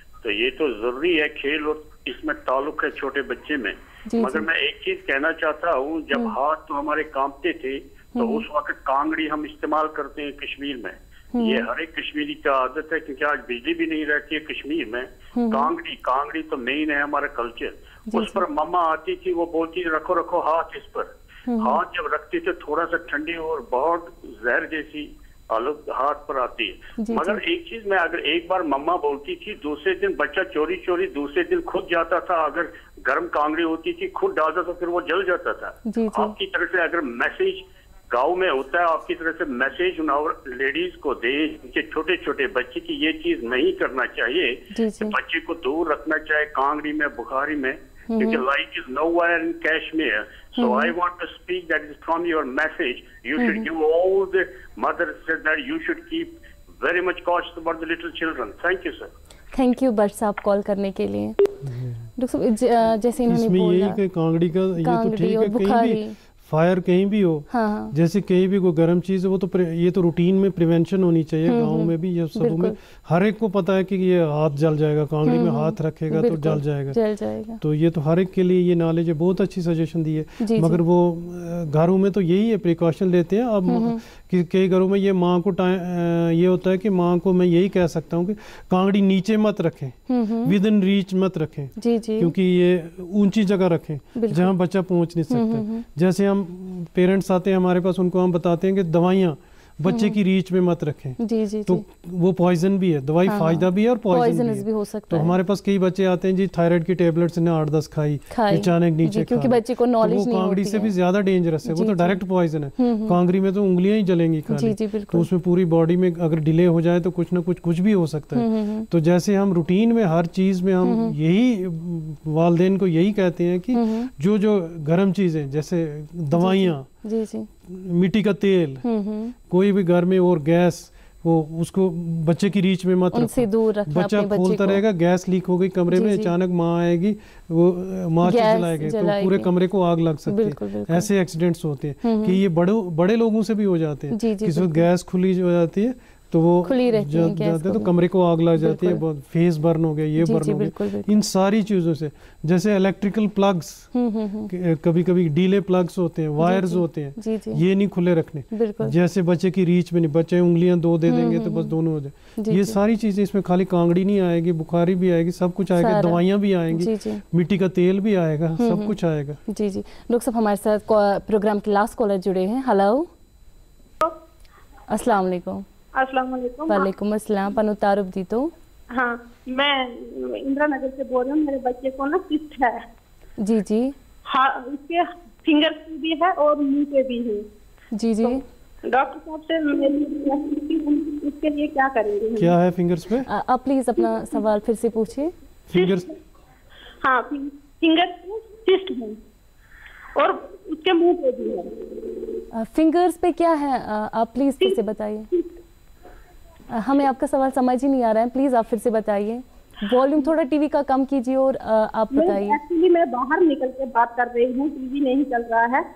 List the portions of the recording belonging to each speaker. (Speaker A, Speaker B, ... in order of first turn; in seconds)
Speaker A: 0.2-56.3, 56.8-59.1
Speaker B: 4.1-4.5, 8.2-8.4, 11.3-11.7, 15.3-15.7, 18.1-18.4, 21.5-21.8, 27.0-27.4, 35.9-36.3, 44.7-45.1, 48.1-48.4, 50.5-50.9, 53.4-53.6, 59.5-61.4, 62.2-64.0, 64.8-66.1, 67.5-67.9, 71.5-72.8, 75.2-77.6, 80.4-80.8, 83.7-84.0, 90.1-90.5, 91.8-92.3, 94.1-94.5, 95.3-95.8, 99.8-100.2, 101.2-101.8, 103.3-105.3, 108.3-110.9, 111.7-112.2, 112.8-113.2, 114.5-115.3, 118.3-118.9, 120.8-121.1, 123.7-124.1, 126.3-127.5, 128.8-129.3, 133.1-134.8, 135.9-136.3, 138.2-139.5, 140.3-141.1, 142.0-142.4, 144.1-144.8, 146.6-147.9, 148.6-149.0, 150.2-151.2, 153.9-154.5, 156.4-157.6, 158.5-158.9, 161.1-161.7, 162.4-162.8, 165.8-167.2, 168.6-169.0, 169.5-173.1, 174.9-175.6, 176.7-178.5, 183.4-183.9, 187.9-188.4, 193.2-195.3, 202.5-205.3, 206.7-212.6
Speaker C: 61.6-62.1, 63.3-77.0, 77.6-126.9, 127.7-128.8, 129.4-153.9, 154.5-169.4, 192.3-193.3, 195.7-196.1
Speaker D: 176.0-176.8, 178.9-182.8, 184.3-187.4, 188.9-192.5, 197.0-199.1, 200.2-201.7, 212.2-215.8